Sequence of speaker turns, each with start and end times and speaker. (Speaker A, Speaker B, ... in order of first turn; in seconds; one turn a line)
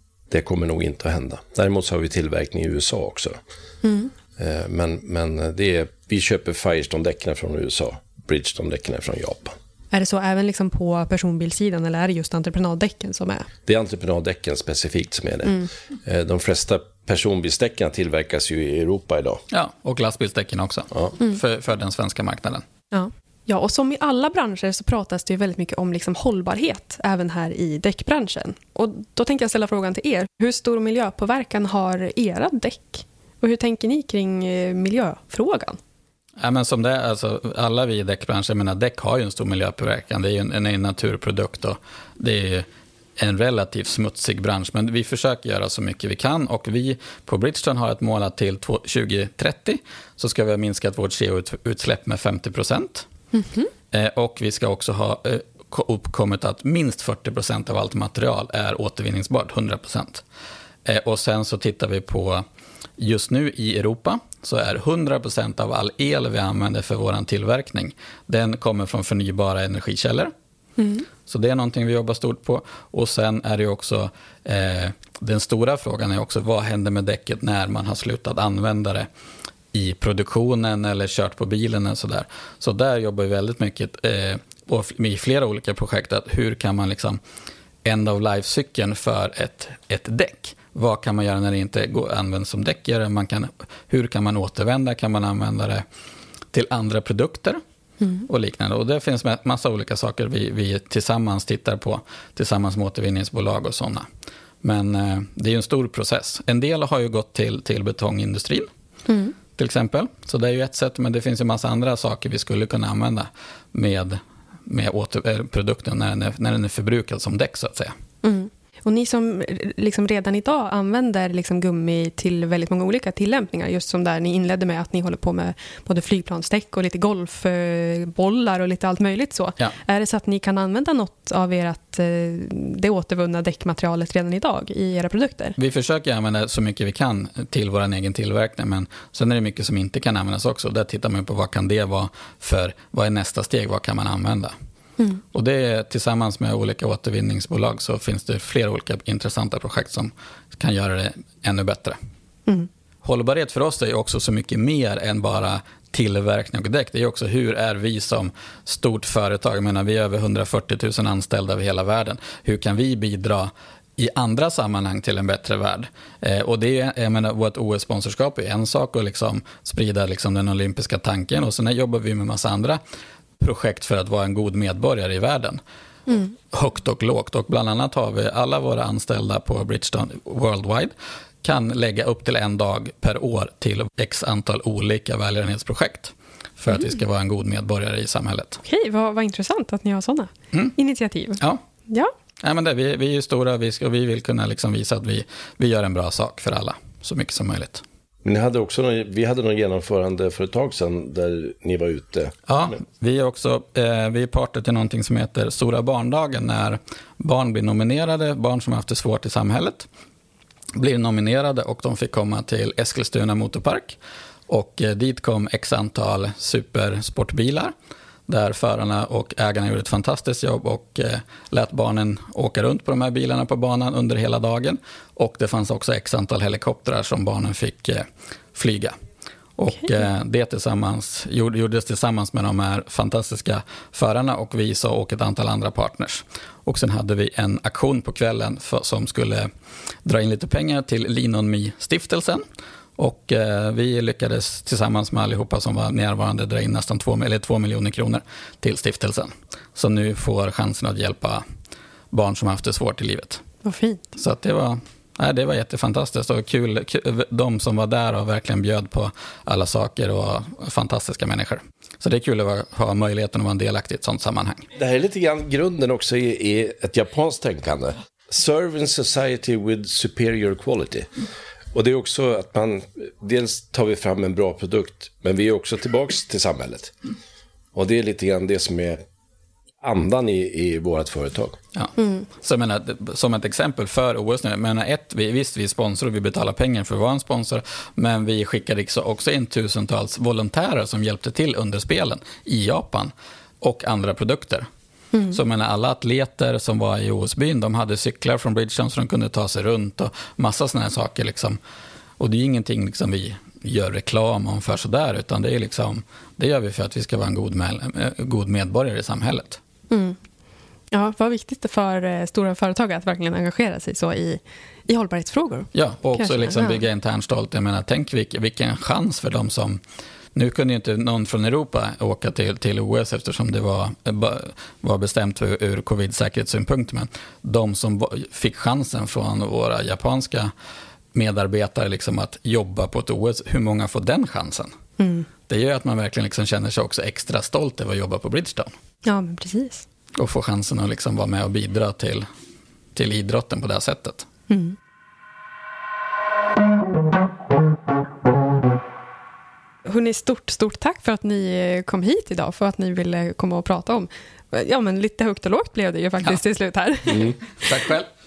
Speaker A: 0.3-3.4
Speaker B: 3.8-4.1
Speaker A: 4.4-9.6
Speaker B: 9.9-13.5
Speaker A: 13.7-19.4
Speaker C: 19.5-22.6
Speaker B: 22.9-35.8
Speaker C: 36.4-53.1
Speaker B: 53.3-53.7
Speaker C: 53.9-60.2
Speaker C: 60.9-62.5
Speaker C: 63.0-70.3
Speaker B: 70.8-71.1
Speaker C: 71.3-79.1
Speaker C: 79.7-87.2
Speaker C: 87.8-95.8
Speaker C: 96.5-97.6
Speaker C: 98.2-104.1
Speaker C: 104.6-108.7
Speaker B: 109.1-109.3
Speaker C: 109.6-117.9
Speaker B: 118.2-135.6
Speaker C: 135.6-144.5
Speaker C: 145.3-152.0
Speaker C: 153.0-172.8
Speaker C: 173.4-175.6
Speaker C: 176.5-188.6
Speaker B: 188.6-192.1
Speaker C: 192.4-197.8
Speaker A: 198.2-202.4
Speaker C: 202.5-209.9
Speaker C: 210.8-214.0
Speaker C: 214.5-217.7
Speaker C: 218.3-228.9
Speaker C: 229.6-239.5
Speaker C: 240.1-242.4
Speaker C: 243.0-251.4
Speaker C: 252.1-253.4
Speaker B: 253.6-254.0
Speaker C: 254.2-264.7
Speaker A: 264.8-271.1
Speaker A: 271.7-276.9
Speaker A: 277.7-279.0
Speaker A: 279.8-281.6
Speaker C: 281.8-294.7
Speaker B: 295.1-295.4
Speaker C: 295.3-301.6
Speaker C: 302.2-309.6
Speaker B: 309.9-310.2
Speaker B: 310.9-316.8
Speaker C: 315.8-319.8
Speaker C: 320.4-330.5
Speaker C: 331.1-334.7
Speaker B: 335.0-335.3
Speaker C: 335.5-338.7
Speaker B: 339.1-339.9
Speaker C: 340.2-342.3
Speaker C: 342.9-344.3
Speaker B: 344.5-344.8
Speaker B: 349.9-357.7
Speaker C: 357.6-358.1